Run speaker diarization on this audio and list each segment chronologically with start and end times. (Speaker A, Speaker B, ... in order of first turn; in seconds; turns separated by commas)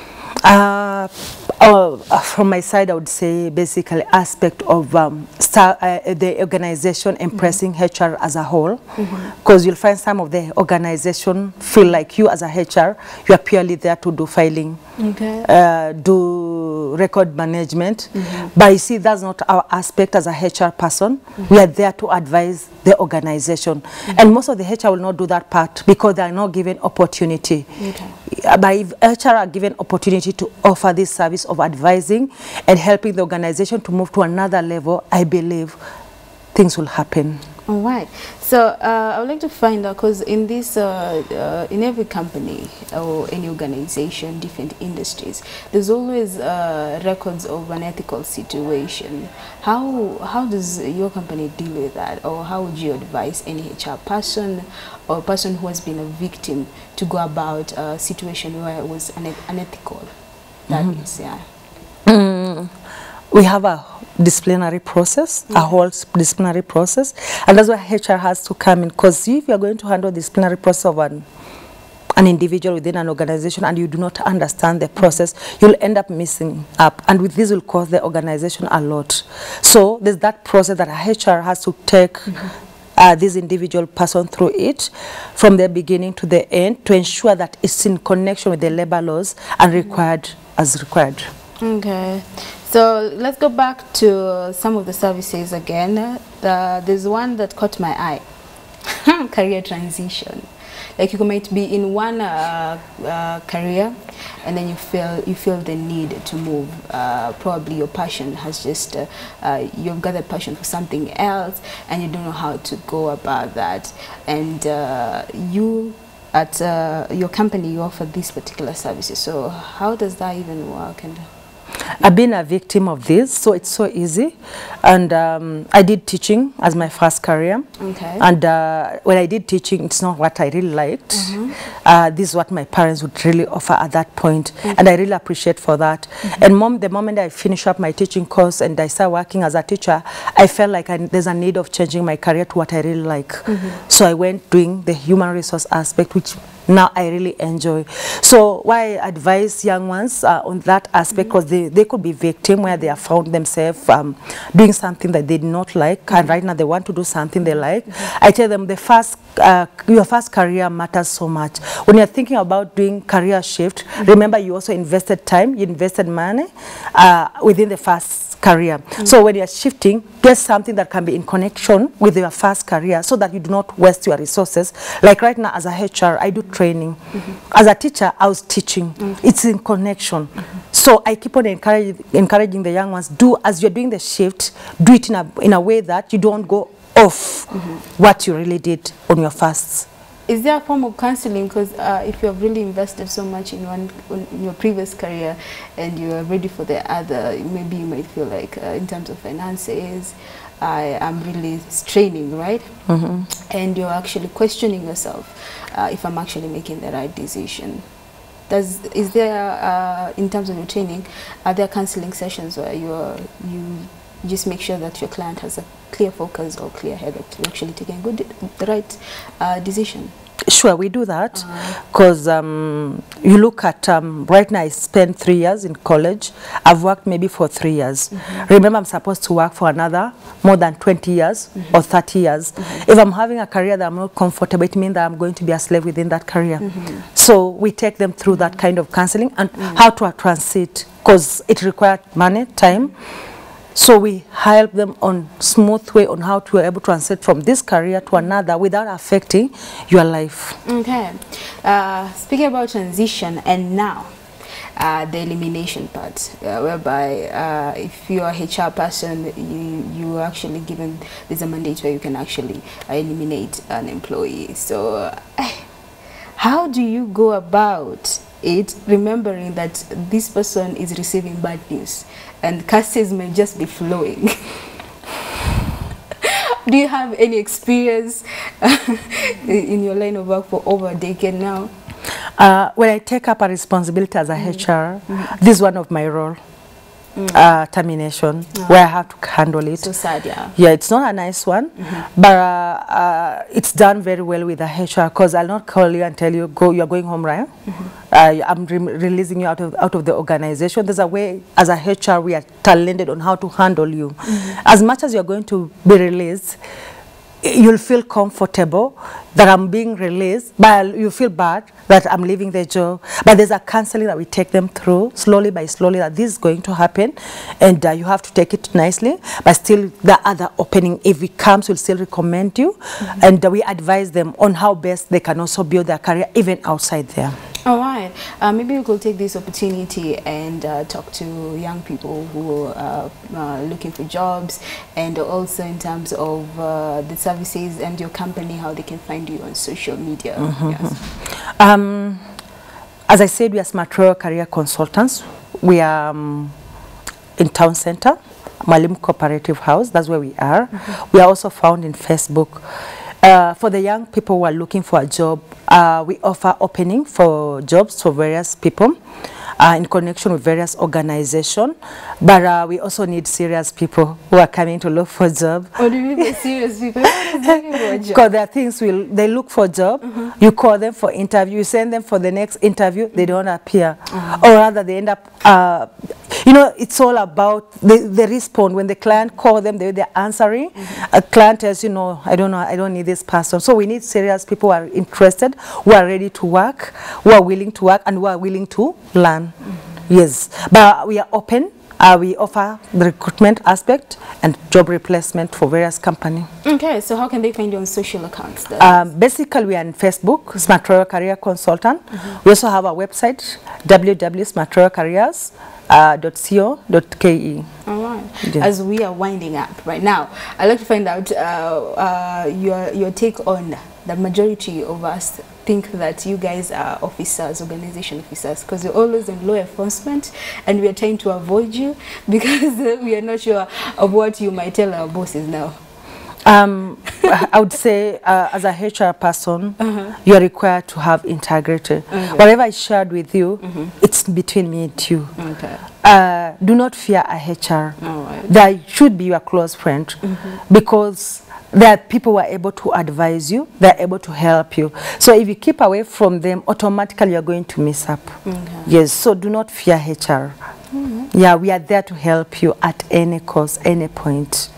Speaker A: 0.4-8.8, Speaker B: 9.0-9.3, Speaker A: 9.3-14.8, Speaker B: 15.0-15.5, Speaker A: 15.4-27.7, Speaker B: 18.1-18.5, Speaker B: 27.8-28.2, Speaker A: 28.3-35.8, Speaker A: 36.5-37.4, Speaker B: 37.7-60.1, Speaker B: 60.7-61.4, Speaker A: 62.1-62.7, Speaker A: 63.3-71.2, Speaker A: 72.2-82.5, Speaker A: 83.0-91.3, Speaker B: 91.6-98.2, Speaker B: 98.8-121.2, Speaker A: 122.0-127.7, Speaker B: 127.8-128.2, Speaker A: 128.2-189.9, Speaker B: 131.1-131.6, Speaker B: 143.5-143.8, Speaker B: 187.5-187.8, Speaker B: 190.3-202.8, Speaker A: 202.9-203.3, Speaker B: 203.5-207.8, Speaker B: 208.5-220.1, Speaker A: 220.5-242.9, Speaker B: 236.7-237.0, Speaker A: 243.8-250.6, Speaker B: 250.7-254.1, Speaker B: 254.8-265.7, Speaker B: 266.4-274.6, Speaker B: 276.2-281.7, Speaker A: 282.4-286.4, Speaker B: 287.2-287.4, Speaker A: 287.3-289.9, Speaker B: 288.6-288.8, Speaker B: 289.8-290.6, Speaker A: 290.6-297.5, Speaker B: 297.7-297.9, Speaker A: 298.1-306.6, Speaker B: 304.3-304.6, Speaker A: 307.4-327.4, Speaker B: 327.6-341.0, Speaker A: 340.4-342.2, Speaker A: 343.1-346.5, Speaker A: 347.4-352.6, Speaker A: 353.2-358.9, Speaker A: 359.6-366.2, Speaker B: 365.8-368.2, Speaker A: 368.1-389.5, Speaker B: 374.1-374.4, Speaker A: 390.1-396.5, Speaker B: 396.6-399.1, Speaker A: 398.8-407.7, Speaker B: 407.9-425.8, Speaker A: 426.4-435.3, Speaker B: 429.8-430.1, Speaker B: 432.1-432.5, Speaker B: 433.6-433.9, Speaker B: 435.4-435.9, Speaker A: 436.0-450.6, Speaker B: 438.0-438.5, Speaker B: 440.2-440.6, Speaker B: 448.4-448.9, Speaker B: 450.9-451.3, Speaker A: 451.3-454.7